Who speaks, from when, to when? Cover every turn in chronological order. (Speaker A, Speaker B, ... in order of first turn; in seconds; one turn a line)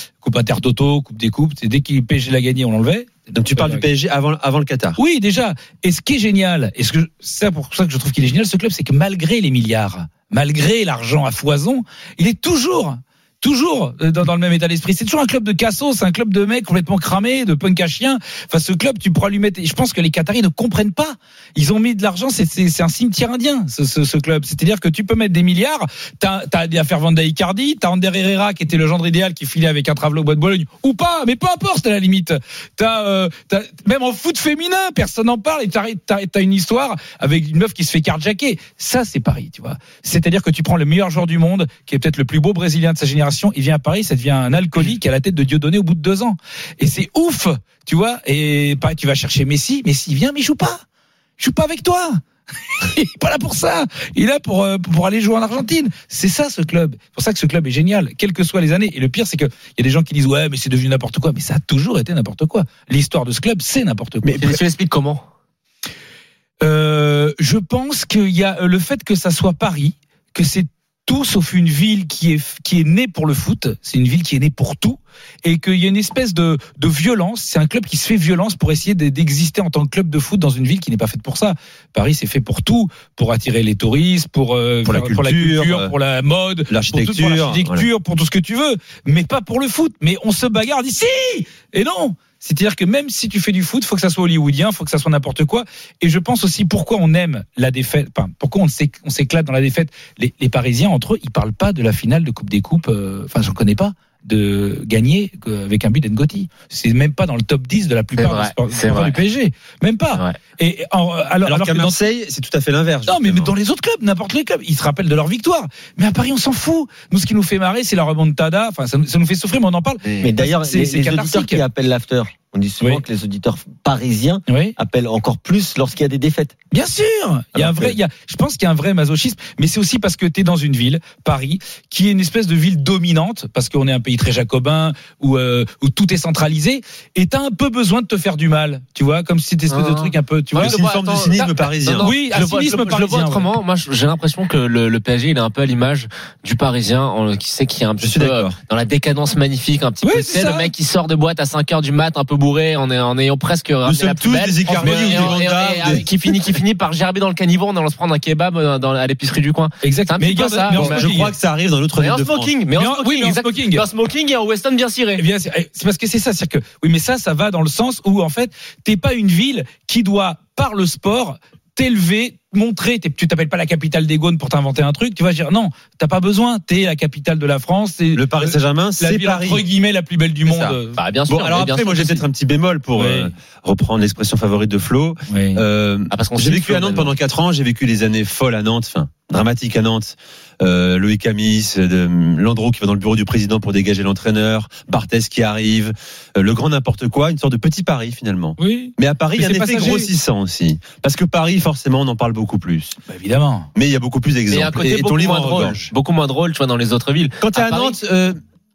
Speaker A: 0.2-3.8
Speaker B: 3.3-5.0
Speaker A: 5.0-50.8
Speaker A: 51.4-52.2
Speaker A: 52.8-64.6
Speaker C: 64.2-65.2
Speaker A: 66.6-112.0
Speaker B: 84.8-85.9
Speaker B: 86.7-87.8
Speaker C: 108.2-109.2
Speaker B: 111.5-113.5
Speaker A: 113.1-121.6
Speaker C: 120.0-120.3
Speaker D: 120.2-126.5
Speaker A: 124.5-124.7
Speaker A: 126.7-140.8
Speaker D: 127.6-127.9
Speaker C: 139.7-161.0
Speaker B: 140.6-142.1
Speaker A: 142.0-143.5
Speaker B: 148.0-148.5
Speaker A: 150.0-150.7
Speaker B: 153.8-156.5
Speaker A: 154.8-155.4
Speaker A: 159.8-161.3
Speaker B: 160.7-162.5
Speaker C: 162.0-165.2
Speaker A: 162.8-163.8
Speaker A: 165.2-181.0
Speaker B: 178.1-179.6
Speaker B: 180.4-180.8
Speaker C: 180.9-182.2
Speaker B: 181.3-203.0
Speaker A: 182.9-183.3
Speaker A: 185.3-185.6
Speaker C: 186.1-187.1
Speaker A: 198.6-200.1
Speaker A: 203.1-203.7
Speaker B: 203.7-205.9
Speaker C: 204.5-208.0
Speaker B: 207.4-208.4